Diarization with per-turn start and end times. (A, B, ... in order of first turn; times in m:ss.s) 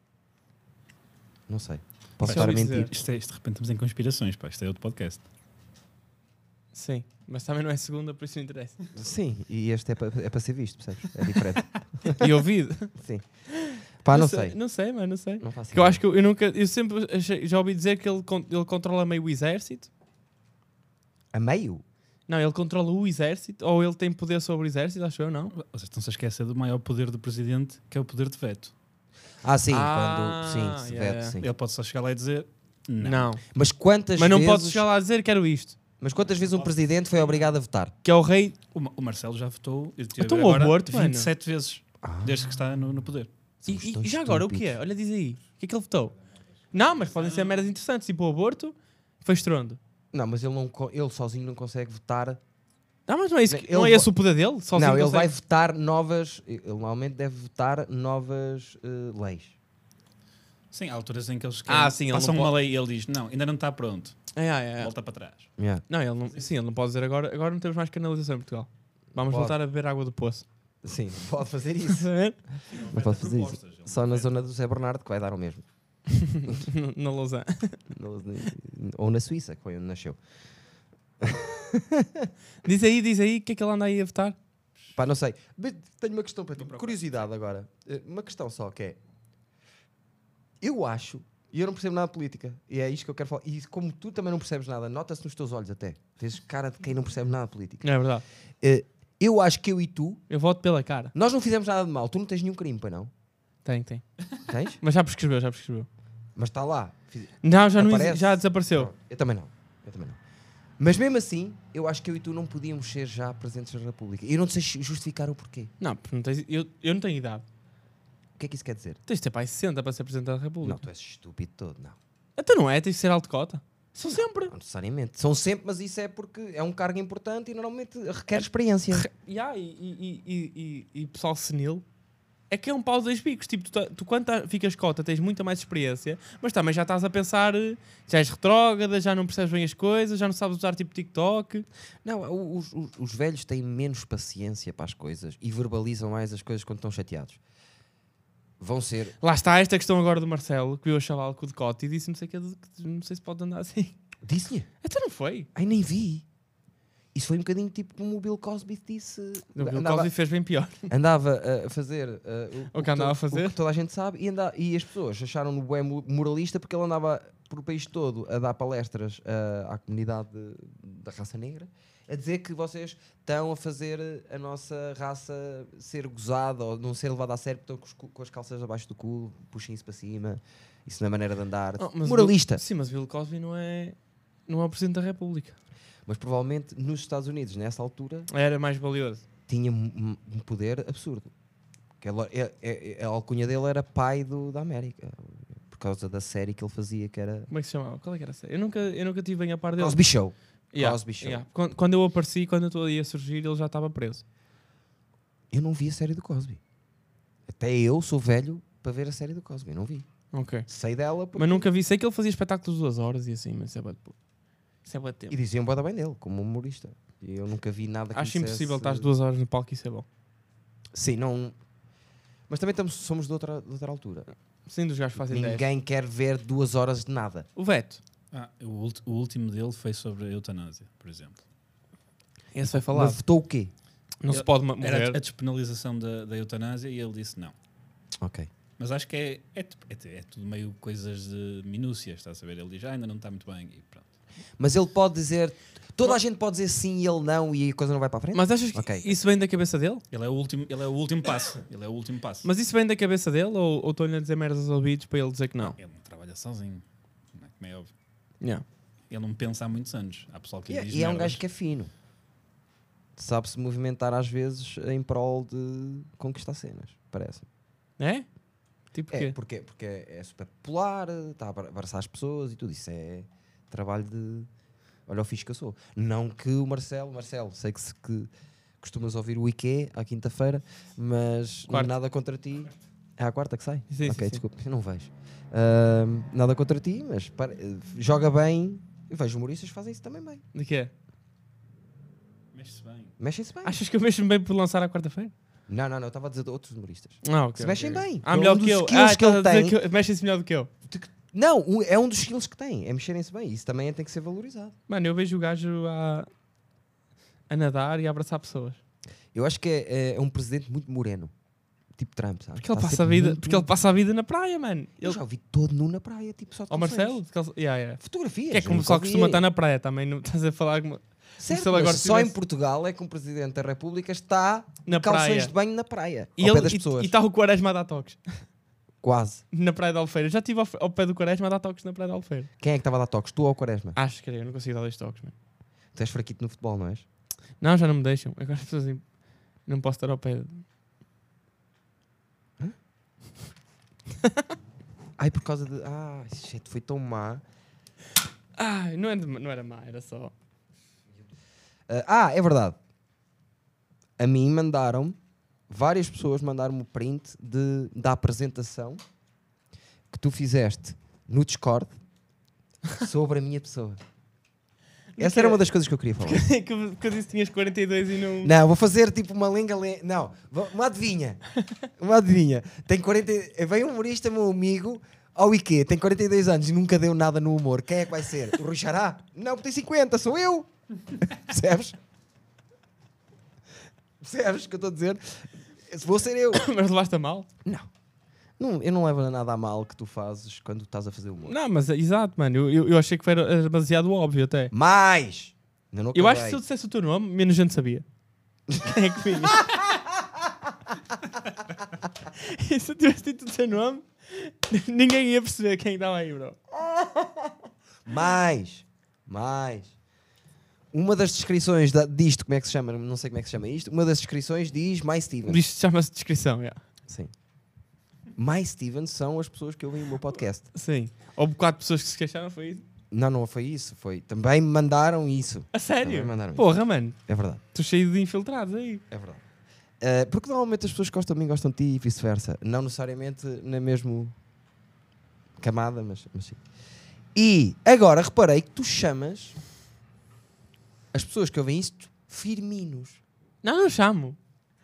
0:01.5-0:02.9 A
0:02.2-0:05.2 B
0:02.2-0:02.9 C
0:06.7-0:08.8 C
0:09.0-0:12.4 A
0:12.1-0:12.9 C
0:13.0-0:13.2 A
0:13.5-0:19.9 C
0:14.0-0:14.6 A
0:15.4-0:16.0 A
0:21.3-0:21.8 A
0:22.3-0:25.5 C
0:25.5-0:28.7 B
0:29.4-0:31.5 A
0:29.7-0:31.4 C
0:31.4-0:33.3 B
0:33.0-0:33.4 C
0:33.5-0:34.8 A
0:34.2-0:35.8 C
0:36.0-0:37.9 A
0:38.0-0:38.6 C
0:38.7-0:43.3 B
0:40.2-0:41.3 C
0:42.0-0:42.4 A
0:43.6-0:44.8 A
0:43.7-0:46.2 C
0:46.7-0:49.8 C
0:47.2-0:47.5 B
0:50.1-0:52.4 A
0:53.1-0:55.3 C
0:53.5-0:54.1 A
0:54.7-0:59.6 A
1:00.7-1:05.5 B
1:01.7-1:02.5 C
1:04.4-1:04.9 C
1:05.6-1:05.8 A
1:05.9-1:10.4 C
1:09.2-1:09.6 A
1:10.8-1:12.1 A
1:11.9-1:12.4 C
1:12.7-1:14.3 B
1:12.9-1:15.6 A
1:16.1-1:17.8 C
1:17.9-1:20.2 A
1:21.2-1:22.3 A
1:22.6-1:24.4 C
1:25.0-1:29.0 A
1:30.6-1:37.8 A
1:37.8-1:38.2 C
1:38.6-1:40.2 A
1:40.3-1:41.1 C
1:41.1-1:43.1 A
1:43.6-1:44.0 C
1:44.5-1:44.8 A
1:44.8-1:45.9 C
1:46.4-1:50.2 A
1:47.4-1:48.9 C
1:50.8-1:55.7 A
1:55.8-1:57.4 C
1:58.4-1:59.0 A
1:59.1-2:00.8 C
2:00.6-2:02.0 A
2:02.4-2:04.5 C
2:04.5-2:09.1 A
2:08.9-2:11.8 C
2:12.5-2:21.7 C
2:22.0-2:27.4 A
2:28.6-2:29.2 A
2:29.2-2:34.0 C
2:34.2-2:34.7 A
2:34.8-2:35.5 C
2:35.6-2:36.2 A
2:37.1-2:40.1 A
2:39.6-2:40.9 C
2:40.9-3:02.6 A
2:42.7-2:43.6 C
3:01.8-3:04.0 C
3:04.5-3:05.6 C
3:06.1-3:08.3 A
3:08.3-3:09.2 C
3:09.5-3:11.3 A
3:12.0-3:17.5 A
3:17.5-3:20.0 C
3:19.8-3:21.4 A
3:20.7-3:24.2 C
3:25.5-3:26.6 A
3:27.5-3:30.1 A
3:30.3-3:30.7 C
3:30.7-3:31.7 A
3:31.4-3:34.2 C
3:34.8-3:35.4 C
3:35.3-3:39.1 A
3:38.1-3:40.1 C
3:40.9-3:41.6 A
3:42.5-3:44.3 A
3:44.7-3:45.7 C
3:45.2-3:47.5 A
3:47.6-3:48.0 C
3:48.3-3:51.4 B
3:52.5-3:53.2 C
3:52.7-3:53.7 A
3:54.2-3:55.2 C
3:54.3-3:57.5 B
3:58.2-3:58.5 A
3:58.8-4:04.1 B
4:04.6-4:09.1 A
4:08.3-4:10.0 C
4:10.1-4:12.5 B
4:12.4-4:15.8 C
4:15.6-4:17.9 B
4:19.1-4:21.4 B
4:20.7-4:21.9 A
4:23.2-4:27.5 A
4:28.0-4:28.3 C
4:28.9-4:29.4 C
4:29.1-4:34.5 A
4:35.1-4:38.3 A
4:38.8-4:50.4 A
4:41.7-4:41.9 C
4:43.9-4:44.4 C
4:50.5-4:50.9 C
4:52.5-4:53.1 B
4:53.2-4:53.8 A
4:53.6-4:55.3 C
4:55.7-4:59.8 A
4:57.2-5:00.7 C
5:00.9-5:04.8 A
5:04.9-5:06.3 C
5:07.5-5:08.8 C
5:09.3-5:11.3 A
5:11.9-5:13.7 A
5:12.6-5:15.2 C
5:15.0-5:17.2 A
5:16.7-5:22.4 C
5:18.0-5:19.4 A
5:21.4-5:27.1 A
5:24.9-5:25.5 C
5:26.4-5:28.4 C
5:29.0-5:29.4 A
5:29.5-5:32.5 C
5:32.6-5:34.0 A
5:34.0-5:35.4 C
5:36.0-5:37.0 A
5:37.6-5:39.0 C
5:39.7-5:40.6 C
5:45.2-5:47.4 A
5:48.6-5:50.3 C
5:51.9-5:52.8 A
5:54.2-5:55.2 A
5:55.7-5:59.0 A
6:00.1-6:02.0 A
6:03.0-6:04.0 A
6:05.2-6:05.6 C
6:05.2-6:06.4 A
6:06.2-6:08.5 C
6:08.4-6:11.4 A
6:12.0-6:22.0 A
6:24.2-6:26.7 A
6:26.5-6:27.5 C
6:28.6-6:31.6 A
6:31.4-6:34.7 C
6:34.7-6:36.6 A
6:36.1-6:38.0 C
6:38.8-6:39.8 C
6:39.4-6:40.5 A
6:42.4-6:46.6 C
6:46.8-6:47.3 A
6:48.1-6:49.9 A
6:50.9-6:55.6 A
6:55.5-6:56.8 C
6:58.4-7:00.7 A
7:00.7-7:02.8 C
7:03.1-7:06.7 A
7:05.7-7:07.2 C
7:07.3-7:07.6 A
7:07.7-7:09.0 C
7:09.1-7:09.4 A
7:10.0-7:14.4 A
7:15.6-7:16.6 A
7:17.4-7:19.6 A
7:21.1-7:23.2 A
7:23.6-7:24.4 C